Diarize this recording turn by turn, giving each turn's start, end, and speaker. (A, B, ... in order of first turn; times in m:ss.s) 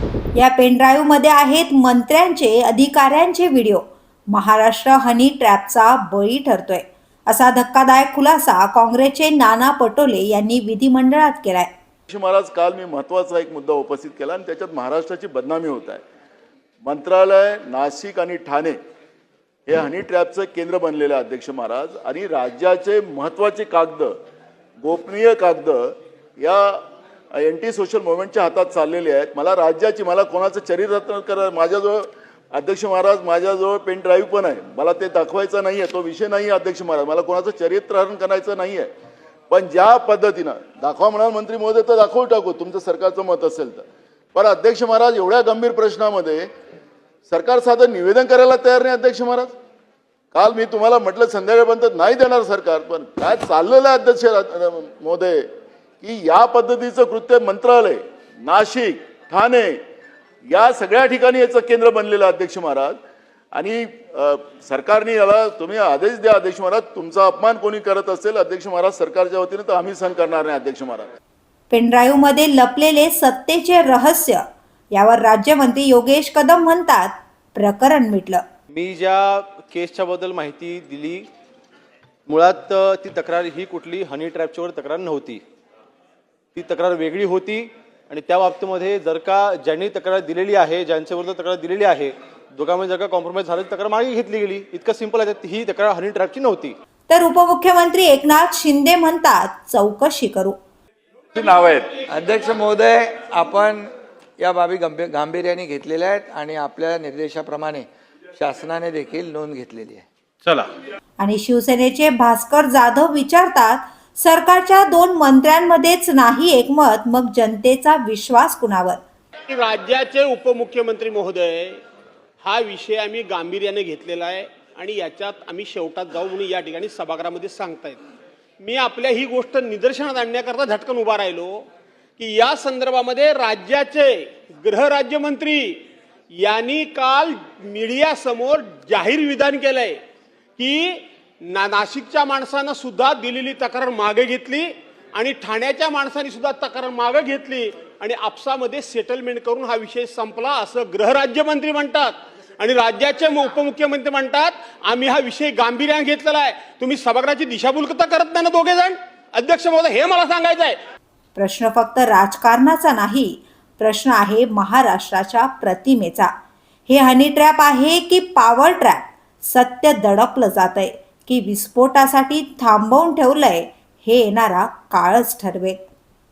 0:00.4-0:11.7 A
0:12.1-0:16.0 B
0:16.8-0:18.8 B
0:19.7-0:24.2 B
0:24.8-0:26.8 B
0:27.4-0:38.9 B
0:39.5-0:43.8 B
0:44.4-0:46.5 B
0:47.3-0:49.6 B
0:50.3-0:55.5 B
0:56.0-0:59.8 B
1:00.5-1:03.0 B
1:03.5-1:11.1 B
1:11.7-1:14.4 A
1:15.0-1:18.4 A
1:18.7-1:21.3 C
1:22.3-1:25.4 C
1:26.6-1:36.8 C
1:37.1-1:40.6 A
1:41.4-1:50.1 D
1:51.2-1:59.0 A
1:59.5-2:01.8 E
2:02.4-2:08.0 E
2:08.6-2:11.6 E
2:12.2-2:15.8 E
2:16.4-2:20.0 E
2:20.6-2:40.8 E
2:41.4-2:46.3 A
2:46.9-2:55.8 A